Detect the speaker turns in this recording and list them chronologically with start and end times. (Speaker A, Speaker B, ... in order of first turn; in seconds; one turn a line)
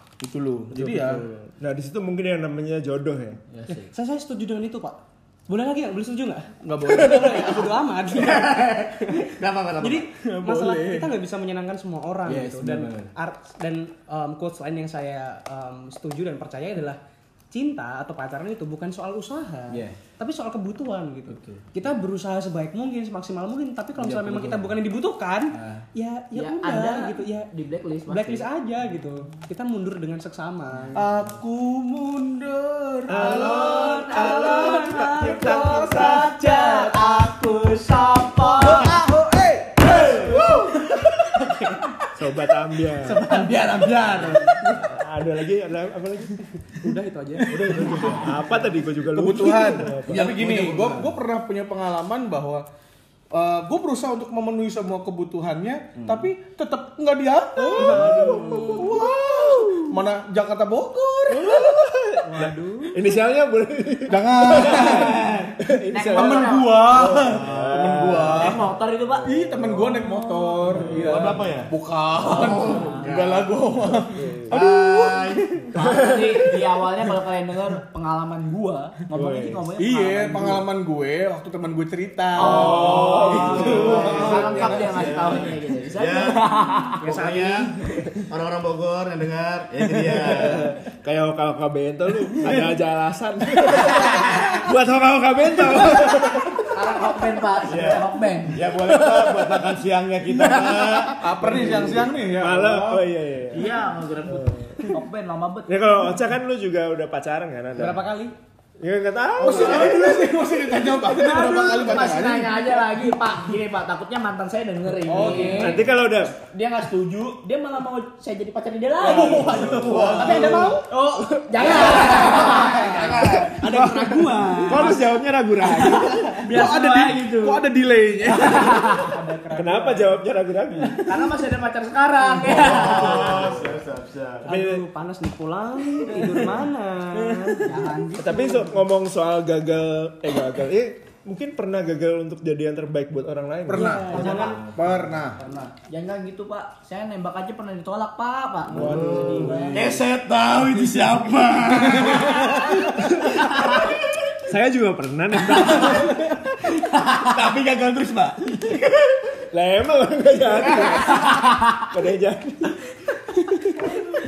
Speaker A: 0.2-1.2
Speaker B: 0.7-3.4
Speaker C: 3.5-3.9
Speaker D: 3.7-17.0
Speaker A: 6.6-7.7
Speaker C: 8.1-10.1
Speaker A: 10.2-11.1
Speaker C: 12.2-13.1
Speaker D: 17.5-27.5
Speaker C: 19.7-20.0
Speaker C: 21.3-21.6
Speaker C: 24.0-24.7
Speaker C: 25.5-25.8
Speaker E: 26.3-28.4
Speaker D: 28.1-31.1
Speaker A: 30.9-37.0
Speaker B: 33.1-36.3
Speaker E: 33.1-39.0
Speaker D: 34.3-37.2
Speaker A: 38.4-41.3
Speaker D: 41.3-41.8
Speaker B: 42.1-43.4
Speaker C: 43.0-44.5
Speaker D: 43.3-44.1
Speaker B: 44.1-46.4
Speaker D: 46.6-48.1
Speaker B: 47.4-50.8
Speaker C: 47.6-48.2
Speaker A: 49.1-52.6
Speaker C: 49.6-51.1
Speaker A: 53.3-61.7
Speaker C: 56.0-56.2
Speaker B: 57.6-59.9
Speaker D: 57.7-58.9
Speaker B: 61.3-69.8
Speaker D: 62.2-63.0
Speaker A: 64.1-65.5
Speaker C: 65.0-65.5
Speaker E: 65.9-67.3
Speaker A: 66.1-68.7
Speaker C: 67.2-68.1
Speaker E: 68.2-70.8
Speaker A: 69.2-75.6
Speaker B: 70.7-71.4
Speaker C: 70.8-71.7
Speaker E: 72.2-73.3
Speaker C: 72.3-73.5
Speaker B: 74.0-74.7
Speaker C: 74.5-75.9
Speaker E: 75.7-80.7
Speaker B: 75.7-76.6
Speaker B: 79.1-79.7
Speaker A: 79.8-85.2
Speaker E: 82.3-87.0
Speaker B: 82.3-84.7
Speaker C: 83.1-87.7
Speaker D: 87.0-88.1
Speaker C: 88.3-90.7
Speaker B: 89.8-96.8
Speaker E: 96.7-98.6
Speaker C: 97.6-101.8
Speaker B: 98.7-99.7
Speaker B: 100.3-104.9
Speaker A: 101.1-103.0
Speaker E: 103.5-105.8
Speaker B: 105.7-108.0
Speaker D: 107.7-108.3
Speaker B: 108.8-110.2
Speaker A: 109.4-112.7
Speaker E: 109.5-110.0
Speaker E: 111.2-124.8
Speaker A: 115.0-115.8
Speaker D: 115.1-115.8
Speaker B: 115.3-116.4
Speaker A: 119.0-120.8
Speaker B: 119.2-119.8
Speaker C: 119.4-120.5
Speaker D: 120.2-120.8
Speaker B: 121.2-121.7
Speaker A: 121.8-123.1
Speaker D: 122.1-125.0
Speaker B: 123.3-126.5
Speaker D: 126.2-127.5
Speaker A: 126.4-128.9
Speaker E: 126.4-127.6
Speaker D: 128.3-130.2
Speaker E: 128.5-129.2
Speaker B: 129.5-131.2
Speaker E: 131.0-133.7
Speaker C: 132.4-134.4
Speaker B: 132.7-133.6
Speaker B: 134.4-134.8
Speaker D: 134.4-137.7
Speaker E: 136.0-136.5
Speaker E: 137.6-138.7
Speaker B: 138.2-144.3
Speaker A: 143.7-145.4
Speaker D: 143.7-144.6
Speaker C: 144.1-145.3
Speaker E: 145.3-150.1
Speaker B: 148.7-149.8
Speaker C: 148.7-153.1
Speaker E: 152.1-152.8
Speaker B: 153.2-156.5
Speaker C: 155.5-156.1
Speaker C: 156.9-158.8
Speaker B: 158.7-164.0